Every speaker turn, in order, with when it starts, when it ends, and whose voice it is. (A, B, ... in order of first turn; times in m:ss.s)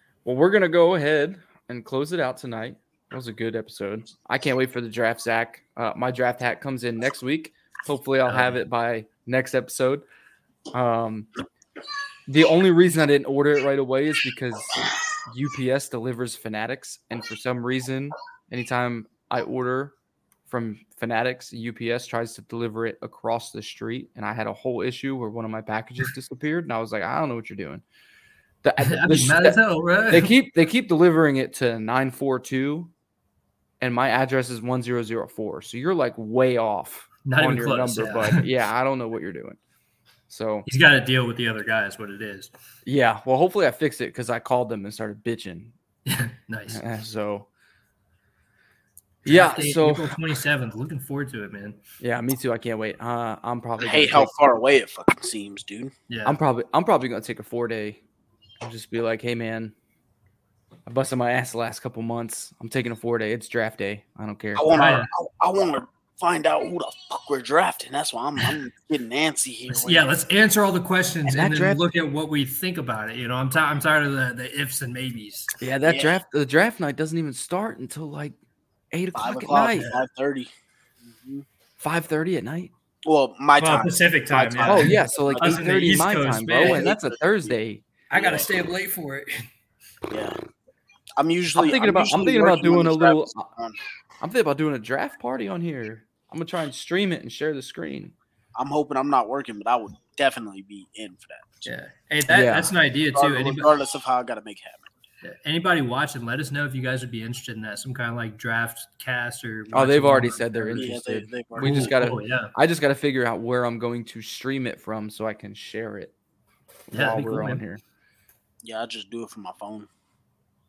0:00.2-0:10.0 A
0:08.2-0:08.6 B
0:10.7-0:11.3 A
0:12.3-0:19.9 A
0:20.5-0:27.8 A
0:28.6-0:29.6 A
0:28.8-0:30.3 B
0:30.1-0:32.9 A
0:33.8-0:39.6 A
0:37.2-0:38.4 B
0:40.3-0:40.7 A
0:40.6-0:42.5 B
0:42.8-0:45.7 A
0:46.0-0:46.8 B
0:46.7-0:47.5 A
0:49.2-0:50.1 A
0:49.2-0:51.8 B
0:52.0-0:54.3 A
0:53.8-0:55.9 C
0:56.1-0:56.4 B
0:56.2-0:58.0 A
0:58.6-0:59.7 A
1:00.8-1:04.8 A
1:04.5-1:10.0 C
1:04.7-1:05.1 B
1:09.7-1:15.5 B
1:11.3-1:11.8 A
1:15.6-1:18.4 A
1:15.8-1:16.2 C
1:18.9-1:19.9 A
1:19.1-1:20.5 C
1:21.0-1:21.4 C
1:21.8-1:22.7 A
1:23.0-1:25.7 C
1:23.6-1:26.9 B
1:24.6-1:27.8 A
1:26.6-1:27.6 C
1:28.1-1:29.3 B
1:28.1-1:28.5 C
1:30.1-1:30.4 C
1:31.2-1:33.8 C
1:31.5-1:33.5 A
1:34.2-1:38.1 A
1:38.6-1:41.7 C
1:41.6-1:43.7 B
1:42.3-1:42.7 A
1:43.1-1:44.9 C
1:45.2-1:50.9 B
1:49.7-1:56.1 A
1:50.7-1:51.9 C
1:51.6-1:52.5 B
1:56.9-1:57.8 A
1:56.9-1:57.6 B
1:58.6-1:59.9 C